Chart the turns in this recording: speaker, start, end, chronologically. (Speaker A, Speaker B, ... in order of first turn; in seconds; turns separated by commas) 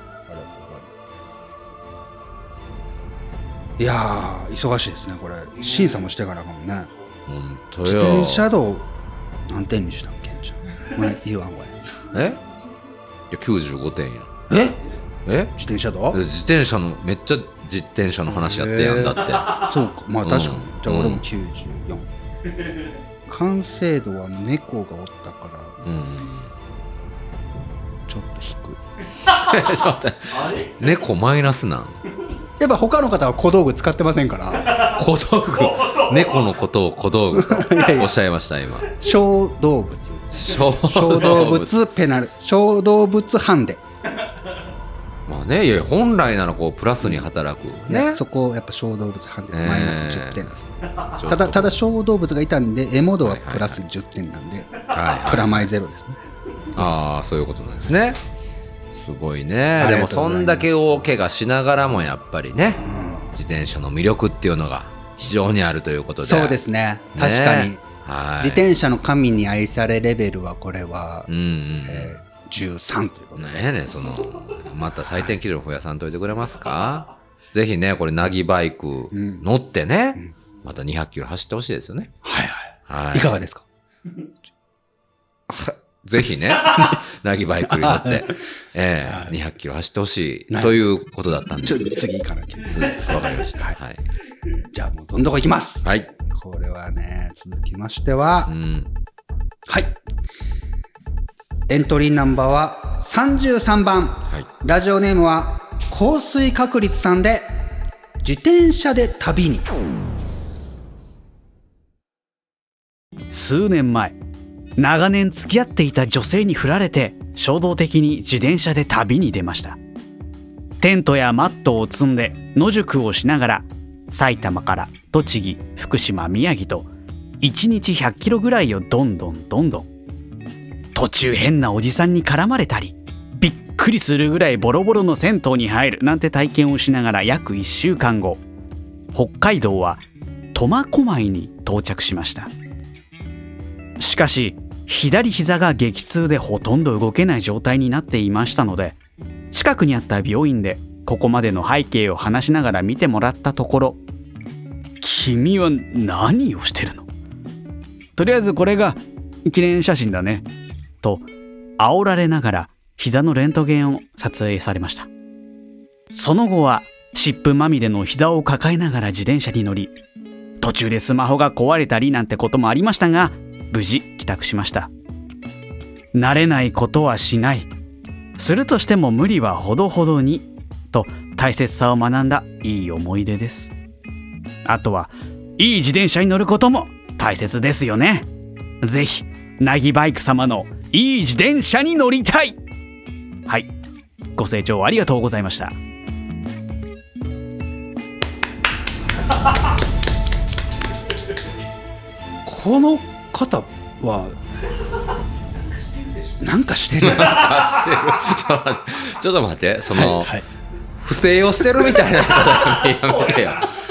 Speaker A: 0.3-0.9, Speaker A: 3.8-6.9, Speaker B: 7.3-8.5, Speaker A: 7.8-8.9, Speaker A: 9.5-11.7, Speaker B: 12.1-12.4, Speaker B: 13.3-14.3, Speaker A: 14.5-14.8, Speaker B: 15.2-15.5, Speaker A: 15.5-16.2, Speaker B: 16.1-19.6, Speaker A: 18.3-22.1, Speaker B: 20.2-21.2, Speaker A: 23.3-25.8, Speaker B: 25.8-26.5, Speaker A: 28.1-28.8, Speaker B: 29.2-32.0, Speaker A: 32.6-34.8, Speaker B: 34.8-38.9, Speaker A: 37.3-38.1, Speaker A: 39.0-43.8, Speaker B: 40.3-41.7, Speaker B: 45.3-48.2, Speaker A: 47.9-56.2, Speaker B: 49.5-50.5, Speaker B: 51.1-51.8, Speaker B: 53.2-53.8, Speaker B: 54.8-55.7, Speaker B: 56.7-58.2, Speaker B: 58.9-66.6, Speaker A: 59.8-61.0, Speaker A: 62.8-63.3, Speaker A: 66.2-67.8, Speaker B: 67.1-68.7, Speaker A: 68.4-71.3, Speaker B: 71.3-72.2, Speaker A: 71.8-73.7, Speaker B: 73.3-82.1, Speaker A: 79.1-79.4, Speaker A: 82.2-83.6, Speaker B: 82.8-83.4, Speaker B: 85.5-92.0, Speaker A: 87.6-88.4, Speaker A: 89.0-89.3, Speaker A: 90.5-90.8, Speaker A: 91.6-93.8, Speaker B: 92.6-94.0, Speaker A: 94.7-98.5, Speaker B: 98.5-98.9, Speaker A: 99.7-100.0, Speaker A: 101.7-107.5, Speaker A: 108.2-109.7, Speaker C: 113.3-114.2, Speaker C: 114.8-119.8, Speaker C: 120.8-126.9, Speaker C: 127.4-129.9, Speaker C: 130.9-138.4, Speaker C: 139.1-142.5, Speaker C: 144.0-149.0, Speaker C: 149.5-154.0, Speaker C: 155.0-157.1, Speaker C: 158.2-160.4, Speaker C: 161.8-165.1, Speaker C: 166.1-169.9, Speaker C: 170.6-174.9, Speaker C: 176.1-177.7, Speaker C: 178.4-183.7, Speaker C: 184.6-188.3, Speaker C: 188.8-192.6, Speaker C: 194.3-195.8, Speaker A: 202.4-204.3, Speaker A: 206.4-207.4, Speaker B: 207.0-210.3, Speaker A: 209.9-210.4, Speaker B: 211.0-213.7